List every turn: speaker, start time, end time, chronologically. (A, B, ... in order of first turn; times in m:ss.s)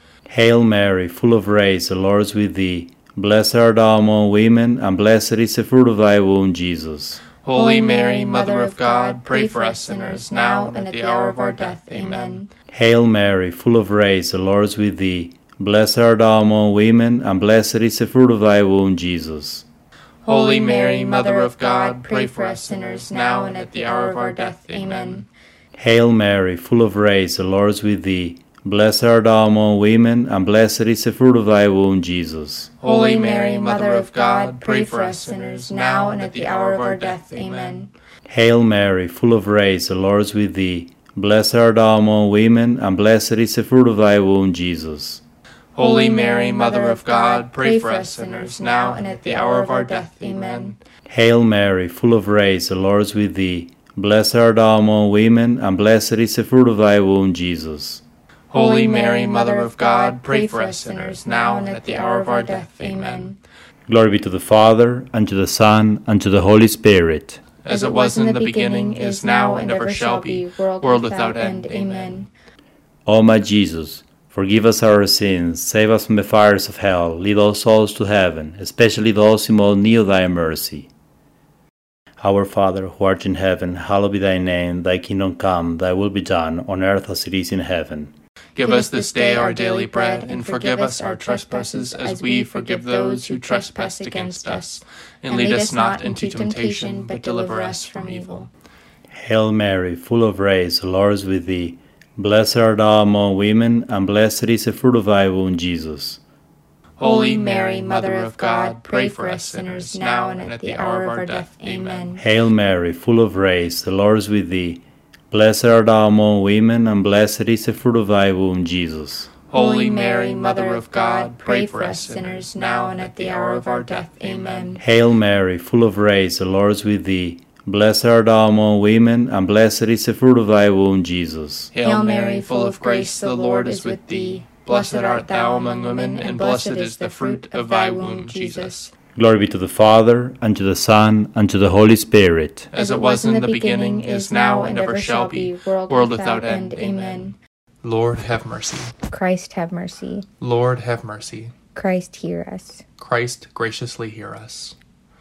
0:00.2-0:07.2 A
0:07.4-0:12.3 B
0:07.5-0:12.5 C
0:12.7-0:19.6 A
0:20.2-0:25.3 B
0:20.3-0:25.2 C
0:25.8-0:32.7 A
0:32.8-0:37.8 B
0:32.8-0:37.9 C
0:38.2-0:45.2 A
0:45.8-0:50.8 B
0:45.8-0:50.8 C
0:51.1-0:58.0 A
0:58.5-1:03.3 B
0:58.5-1:03.4 C
1:03.9-1:07.4 A
1:07.6-1:12.3 B
1:07.7-1:12.3 C
1:13.0-1:20.9 A
1:22.2-1:28.1 A
1:28.6-1:38.5 B
1:28.6-1:34.7 C
1:35.3-1:38.4 C
1:39.1-1:46.2 A
1:47.0-1:52.1 B
1:47.1-1:52.2 C
1:52.2-1:59.3 A
1:59.5-2:04.6 B
1:59.5-2:04.8 C
2:04.8-2:11.7 A
2:11.7-2:18.9 B
2:11.8-2:18.8 C
2:19.2-2:22.7 A
2:22.7-2:27.3 B
2:22.7-2:27.4 C
2:27.8-2:28.9 B
2:29.1-2:30.3 C
2:30.4-2:31.5 B
2:31.7-2:32.8 C
2:33.0-2:34.7 B